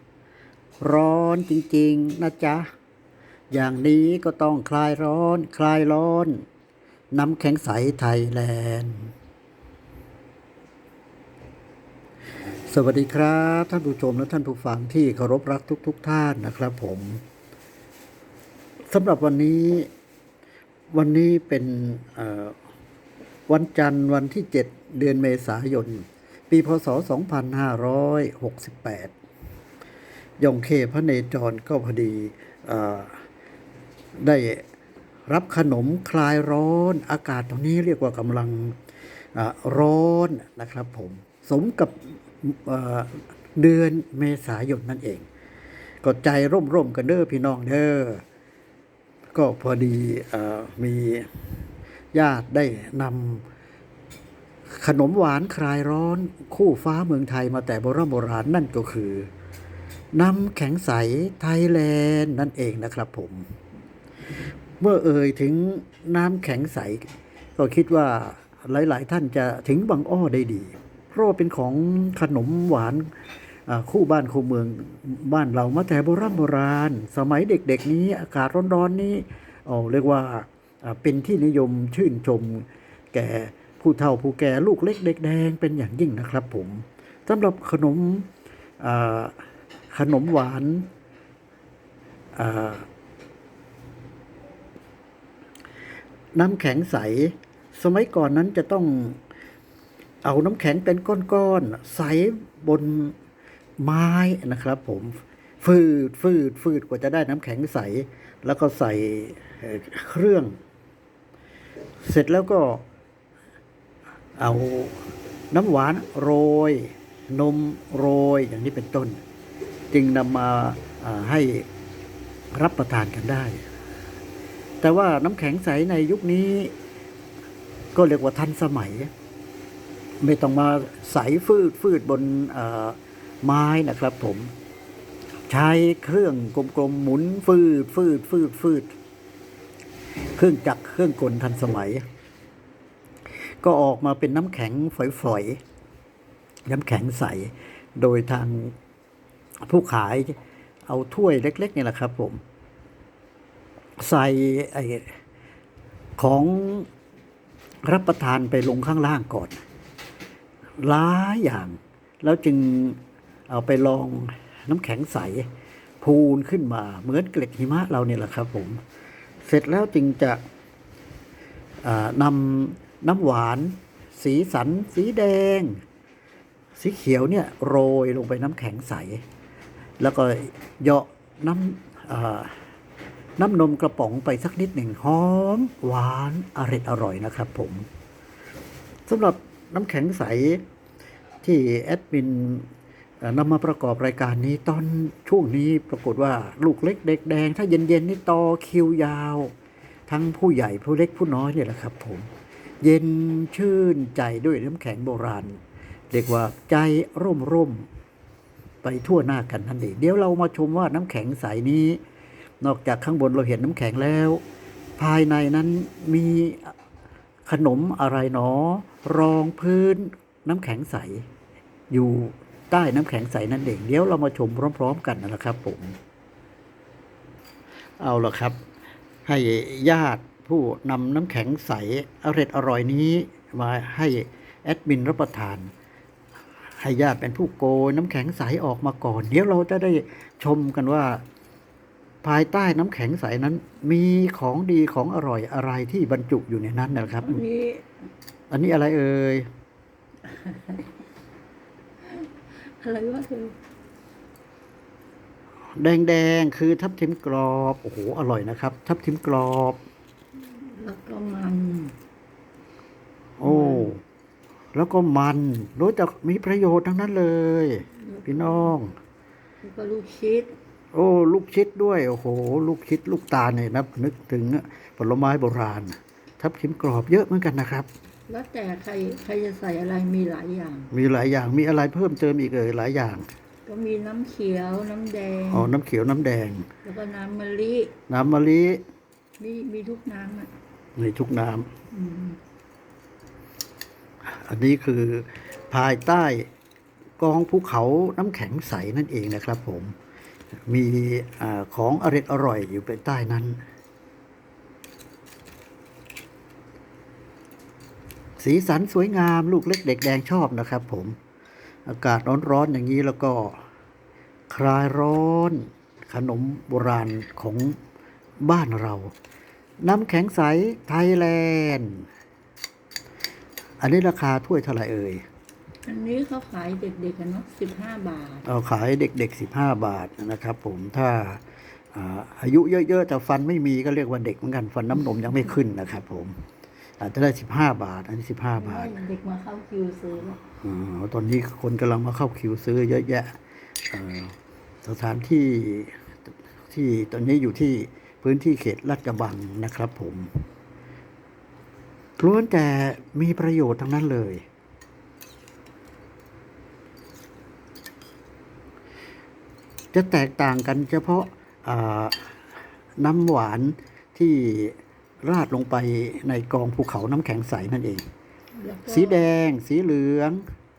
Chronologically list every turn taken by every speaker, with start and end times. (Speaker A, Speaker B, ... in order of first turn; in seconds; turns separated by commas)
Speaker A: 0.8-2.7, Speaker A: 3.5-6.4, Speaker A: 7.1-9.1, Speaker A: 12.7-17.2, Speaker A: 18.9-19.9, Speaker A: 20.9-22.6, Speaker A: 23.5-29.1, Speaker A: 30.4-33.2, Speaker A: 34.2-34.6, Speaker A: 35.3-38.8, Speaker A: 39.4-45.3, Speaker A: 46.0-48.2, Speaker A: 49.4-51.3, Speaker A: 52.1-53.5, Speaker A: 54.8-59.3, Speaker A: 60.1-63.5, Speaker A: 64.8-73.1, Speaker A: 73.7-88.3, Speaker A: 88.8-89.3, Speaker A: 89.9-90.9, Speaker A: 92.3-92.9, Speaker A: 96.3-99.2, Speaker A: 100.2-103.2, Speaker A: 103.8-110.6, Speaker A: 112.0-112.8, Speaker A: 114.4-115.0, Speaker A: 115.5-119.2, Speaker A: 119.9-121.7, Speaker A: 122.5-123.6, Speaker A: 124.8-126.7, Speaker A: 128.0-129.1, Speaker A: 130.2-134.5, Speaker A: 135.5-138.9, Speaker A: 140.4-142.0, Speaker A: 143.6-145.6, Speaker A: 146.7-148.7, Speaker A: 149.7-152.4, Speaker A: 154.0-155.1, Speaker A: 156.2-156.9, Speaker A: 157.8-159.6, Speaker A: 160.8-165.5, Speaker A: 166.0-168.8, Speaker A: 169.4-170.4, Speaker A: 171.8-175.8, Speaker A: 176.8-179.2, Speaker A: 180.0-182.6, Speaker A: 183.4-187.8, Speaker A: 189.1-190.6, Speaker A: 191.4-192.7, Speaker A: 193.2-199.5, Speaker A: 200.1-202.3, Speaker A: 202.8-205.6, Speaker A: 206.1-207.9, Speaker A: 208.8-212.0, Speaker A: 212.6-214.4, Speaker A: 215.0-216.8, Speaker A: 217.5-221.3, Speaker A: 221.9-226.0, Speaker A: 228.0-228.6, Speaker A: 229.2-235.7, Speaker A: 236.8-241.2, Speaker A: 242.2-247.4, Speaker B: 247.2-247.9, Speaker A: 248.5-249.5, Speaker B: 250.2-251.0, Speaker B: 252.0-253.6, Speaker A: 255.8-259.8, Speaker B: 260.4-261.9, Speaker A: 263.4-264.0, Speaker B: 263.4-263.9, Speaker A: 264.7-269.0, Speaker B: 268.0-268.7, Speaker B: 269.6-270.5, Speaker A: 270.9-277.9, Speaker B: 278.3-280.9, Speaker A: 280.9-283.3, Speaker B: 283.7-285.7, Speaker A: 285.5-286.7, Speaker B: 286.8-287.9, Speaker A: 288.1-288.8, Speaker B: 289.4-290.5, Speaker A: 291.0-291.7, Speaker B: 291.9-292.4, Speaker A: 294.2-296.5, Speaker A: 297.2-299.9, Speaker A: 300.7-303.6, Speaker A: 308.4-311.2, Speaker A: 311.9-313.6, Speaker A: 314.5-317.8, Speaker A: 318.4-319.1, Speaker A: 319.8-322.1, Speaker A: 323.8-325.2, Speaker B: 325.9-328.4, Speaker A: 328.4-336.4, Speaker A: 337.0-338.9, Speaker B: 338.6-340.4, Speaker A: 340.6-343.4, Speaker A: 343.9-346.0, Speaker A: 346.7-350.3, Speaker A: 352.2-354.4, Speaker A: 359.9-362.4, Speaker A: 363.0-368.1, Speaker B: 368.6-369.3, Speaker A: 368.9-370.4